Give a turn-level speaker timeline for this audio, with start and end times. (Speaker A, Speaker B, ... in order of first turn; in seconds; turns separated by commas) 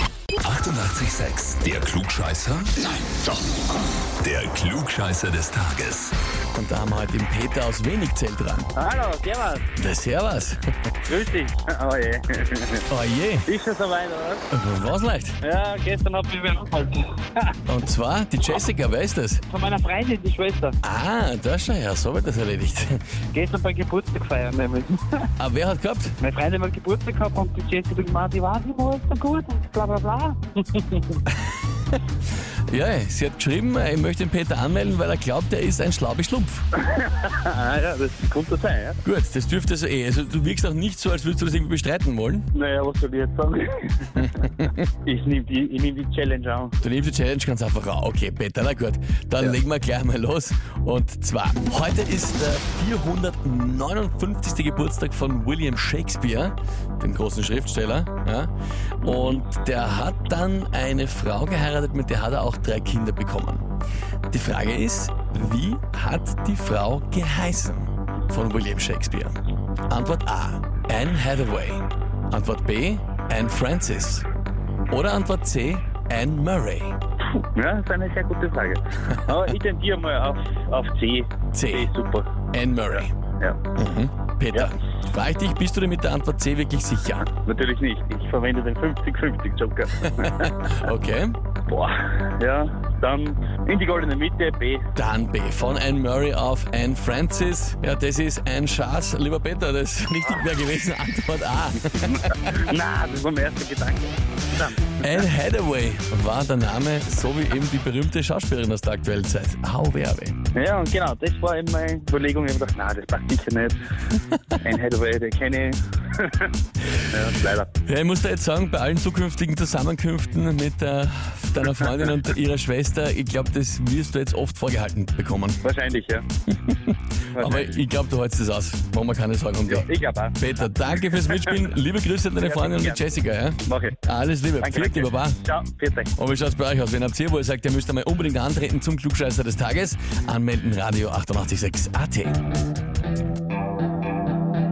Speaker A: 0.4-3.0, Speaker A: 4.2-6.1, Speaker B: 6.5-8.7, Speaker C: 8.8-9.7, Speaker B: 9.8-10.6, Speaker C: 11.1-12.9, Speaker B: 12.9-13.5, Speaker C: 13.5-14.5, Speaker B: 14.5-15.4, Speaker C: 15.4-17.6, Speaker B: 17.7-19.4, Speaker C: 19.5-20.8, Speaker B: 20.8-23.0, Speaker C: 23.3-25.3, Speaker B: 25.4-26.2, Speaker C: 26.2-31.2, Speaker B: 32.7-36.6, Speaker C: 36.8-39.0, Speaker B: 39.0-42.5, Speaker C: 42.5-46.8, Speaker B: 44.2-44.7, Speaker B: 46.8-58.5, Speaker C: 59.0-59.4, Speaker B: 59.0-63.7, Speaker B: 64.3-69.4, Speaker B: 69.9-74.3, Speaker B: 74.9-77.0, Speaker C: 77.4-82.3, Speaker B: 81.5-81.9, Speaker B: 82.5-83.1, Speaker B: 83.8-87.3, Speaker C: 87.4-90.8, Speaker B: 90.2-91.4, Speaker C: 91.7-94.9, Speaker B: 95.0-102.3, Speaker C: 101.9-105.1, Speaker B: 105.0-110.4, Speaker C: 110.5-113.8, Speaker C: 114.6-116.5, Speaker C: 117.0-117.7, Speaker B: 117.8-125.6, Speaker C: 125.6-126.3, Speaker B: 126.7-135.4, Speaker C: 127.3-127.7, Speaker C: 129.7-130.4, Speaker C: 131.0-131.3, Speaker C: 132.4-133.1, Speaker C: 133.7-134.0, Speaker C: 134.6-136.2, Speaker B: 136.2-142.4